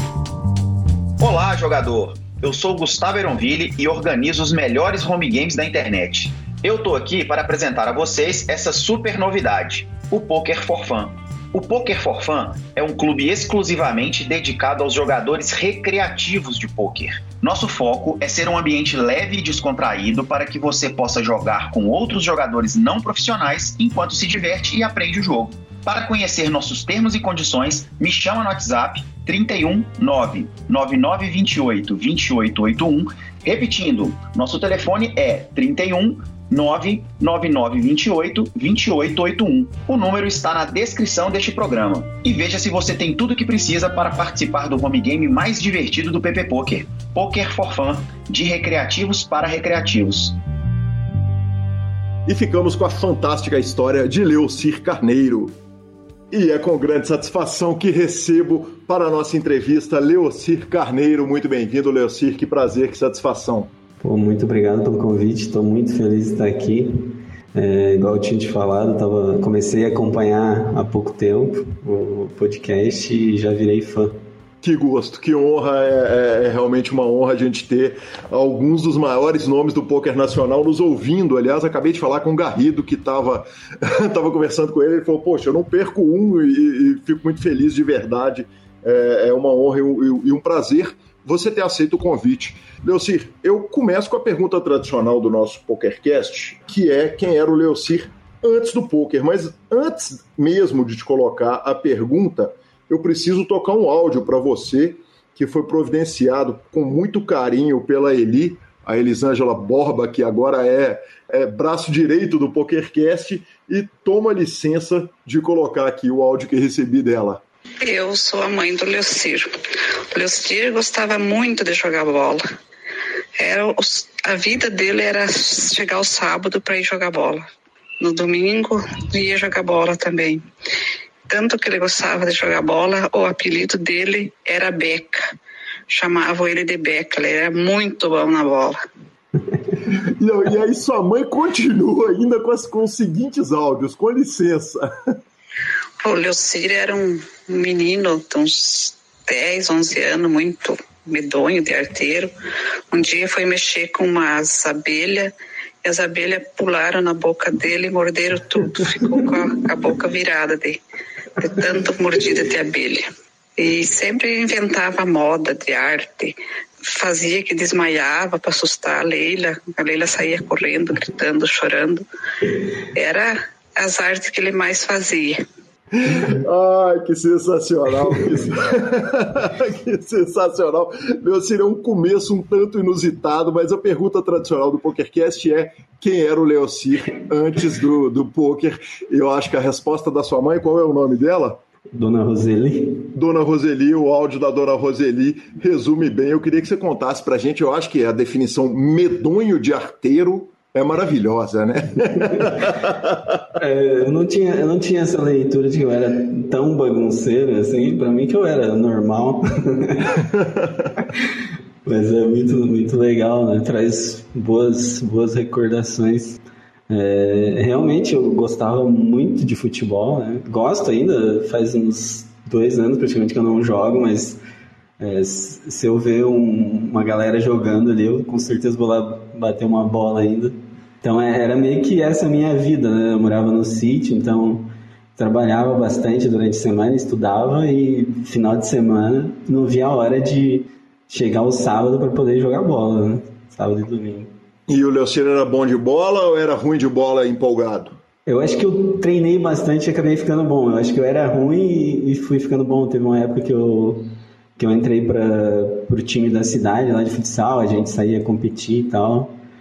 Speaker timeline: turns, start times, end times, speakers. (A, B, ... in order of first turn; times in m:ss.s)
0:01.2-0:50.4 A
0:52.3-0:55.6 B
0:56.3-1:03.7 B
1:04.0-1:14.2 C
1:14.6-1:57.4 B
1:57.8-1:59.5 D
2:00.1-2:02.4 D
2:03.4-2:07.4 D
2:08.0-2:10.4 D
2:11.3-2:15.2 D
2:15.9-2:18.8 D
2:19.9-2:25.2 B
2:26.0-2:32.3 D
2:32.9-2:35.3 D
2:35.8-2:40.8 D
2:41.4-2:43.0 D
2:43.6-2:52.0 D
2:52.9-2:55.4 D
2:55.9-3:11.6 B
3:11.9-3:13.1 C
3:13.1-3:23.2 B
3:23.6-3:30.2 C
3:30.3-3:30.6 B
3:31.8-3:44.4 C
3:45.0-4:04.3 C
4:04.7-4:08.0 B
4:08.3-4:19.3 C